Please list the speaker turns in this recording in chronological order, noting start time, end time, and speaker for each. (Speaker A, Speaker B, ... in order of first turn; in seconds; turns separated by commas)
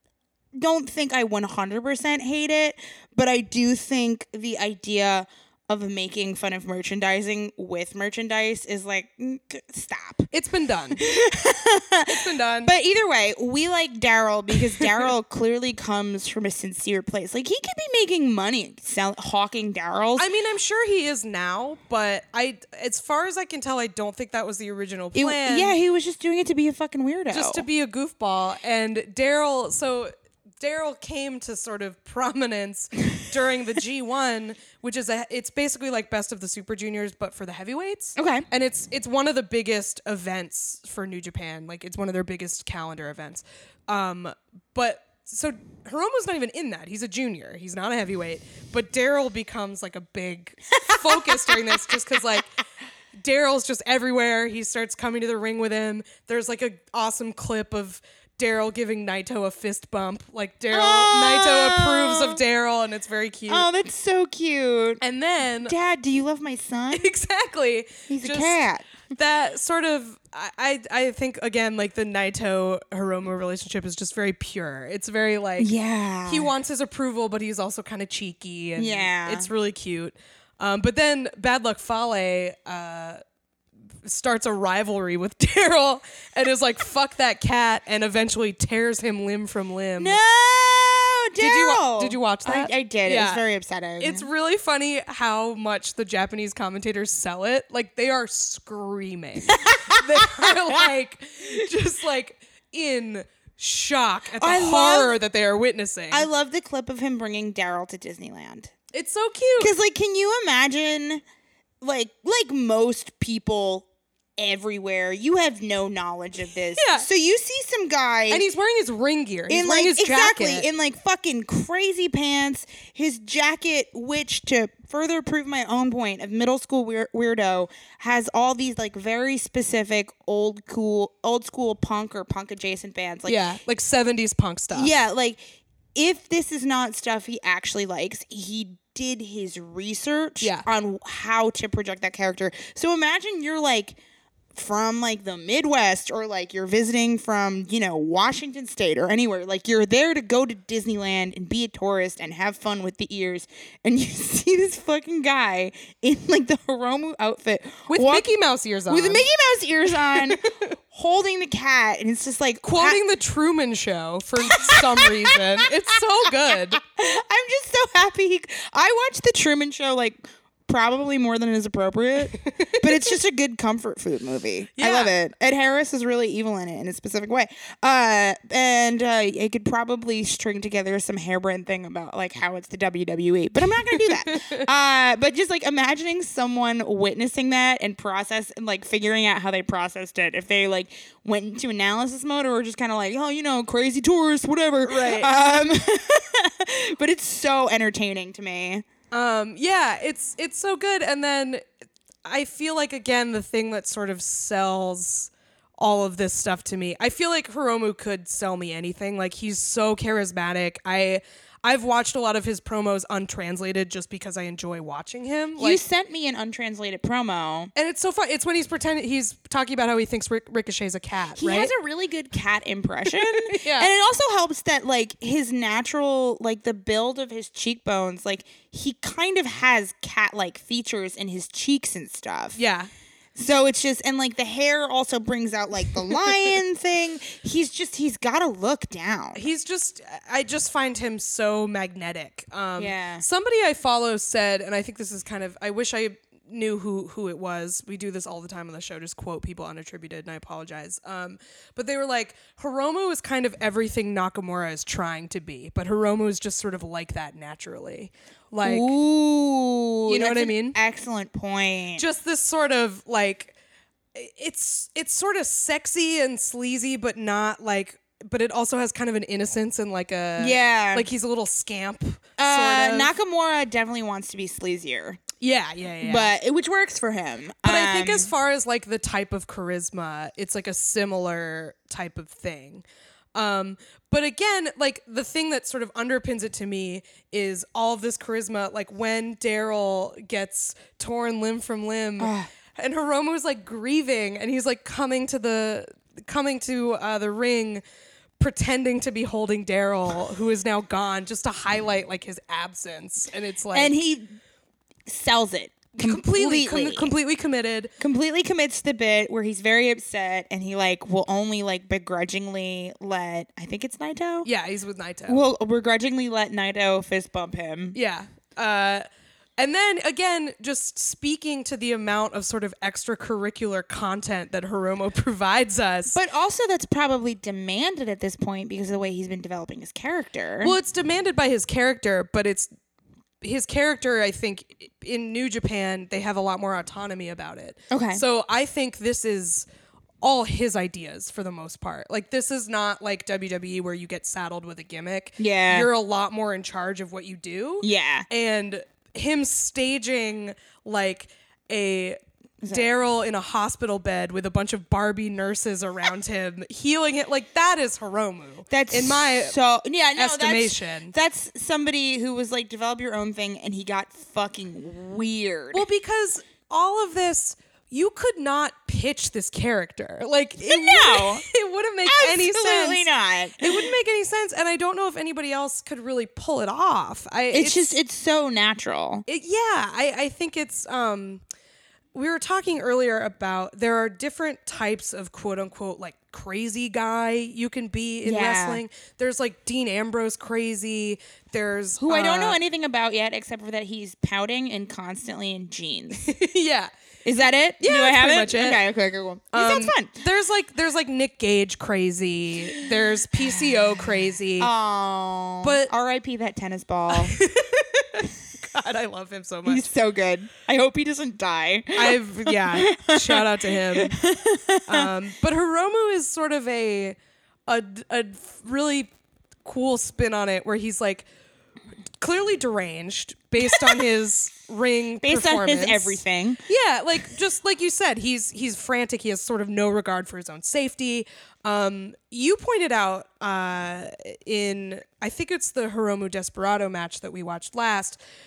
Speaker A: 0.5-10.3, Speaker B: 10.3-11.0, Speaker A: 11.0-20.3, Speaker B: 12.1-12.7, Speaker B: 20.2-25.8, Speaker A: 25.1-27.6, Speaker B: 27.3-52.5, Speaker A: 38.2-38.5, Speaker A: 50.8-52.0, Speaker B: 53.2-63.7, Speaker A: 60.7-62.4, Speaker A: 63.5-65.0, Speaker B: 65.0-65.8, Speaker A: 65.7-67.1, Speaker B: 66.9-68.6, Speaker A: 68.1-68.9, Speaker B: 69.2-75.7, Speaker A: 75.6-76.5, Speaker B: 76.3-83.2, Speaker A: 78.8-79.5, Speaker B: 84.0-90.2, Speaker A: 90.0-94.3, Speaker B: 91.4-93.4, Speaker B: 94.0-106.3, Speaker A: 99.5-100.8, Speaker A: 104.4-105.2, Speaker A: 106.1-108.7, Speaker B: 108.9-109.7, Speaker A: 109.6-111.2, Speaker A: 111.8-118.5, Speaker B: 116.7-117.1, Speaker B: 118.3-120.7, Speaker A: 119.5-133.4, Speaker B: 133.3-134.9, Speaker A: 134.7-135.4, Speaker A: 135.9-144.0, Speaker B: 140.4-140.7, Speaker A: 144.5-158.3, Speaker B: 157.9-159.3, Speaker A: 158.9-163.0, Speaker B: 160.1-160.8, Speaker B: 162.6-166.8, Speaker A: 164.5-165.7, Speaker A: 166.5-198.8, Speaker B: 172.4-172.8, Speaker B: 174.8-175.1, Speaker B: 183.8-184.7, Speaker B: 194.8-195.3, Speaker B: 199.1-201.6, Speaker B: 202.3-215.8, Speaker A: 215.6-217.7, Speaker B: 217.8-221.7, Speaker A: 221.4-232.6, Speaker B: 223.1-223.9, Speaker B: 232.6-232.9, Speaker A: 233.3-239.4, Speaker B: 239.3-258.9, Speaker A: 242.8-243.2, Speaker A: 258.6-262.1, Speaker B: 260.1-260.8, Speaker B: 262.0-263.6, Speaker B: 264.1-273.1, Speaker A: 270.4-271.1, Speaker A: 272.4-275.2, Speaker B: 275.4-276.3, Speaker A: 276.0-278.3, Speaker B: 277.6-282.8, Speaker B: 283.4-297.8, Speaker A: 292.2-292.5, Speaker B: 298.4-304.0, Speaker A: 303.7-304.4, Speaker A: 305.1-307.1, Speaker B: 305.9-307.9, Speaker A: 308.0-314.5, Speaker B: 314.4-315.4, Speaker A: 315.3-318.0, Speaker B: 317.9-319.1, Speaker B: 319.6-326.2, Speaker A: 326.1-330.7, Speaker B: 330.6-332.7, Speaker B: 333.4-339.7, Speaker A: 337.9-338.2, Speaker B: 340.2-352.2, Speaker A: 345.4-345.9, Speaker A: 347.8-348.3, Speaker A: 352.6-352.9, Speaker B: 352.7-359.6, Speaker A: 358.7-365.9, Speaker B: 360.2-361.1, Speaker B: 365.7-373.1, Speaker A: 370.6-371.4, Speaker A: 372.1-373.9, Speaker B: 373.6-378.0, Speaker A: 377.5-379.2, Speaker B: 379.3-381.4, Speaker B: 382.1-392.6, Speaker A: 388.2-388.8, Speaker A: 392.0-396.3, Speaker B: 396.2-396.9, Speaker A: 397.2-400.1, Speaker B: 397.8-398.8, Speaker B: 399.5-404.7, Speaker A: 403.4-403.8, Speaker A: 404.6-407.4, Speaker B: 405.6-405.9, Speaker B: 407.1-409.9, Speaker A: 409.7-415.1, Speaker B: 411.9-414.2, Speaker B: 414.9-419.1, Speaker B: 419.6-421.3, Speaker B: 422.2-438.2, Speaker A: 423.7-424.0, Speaker A: 425.2-426.6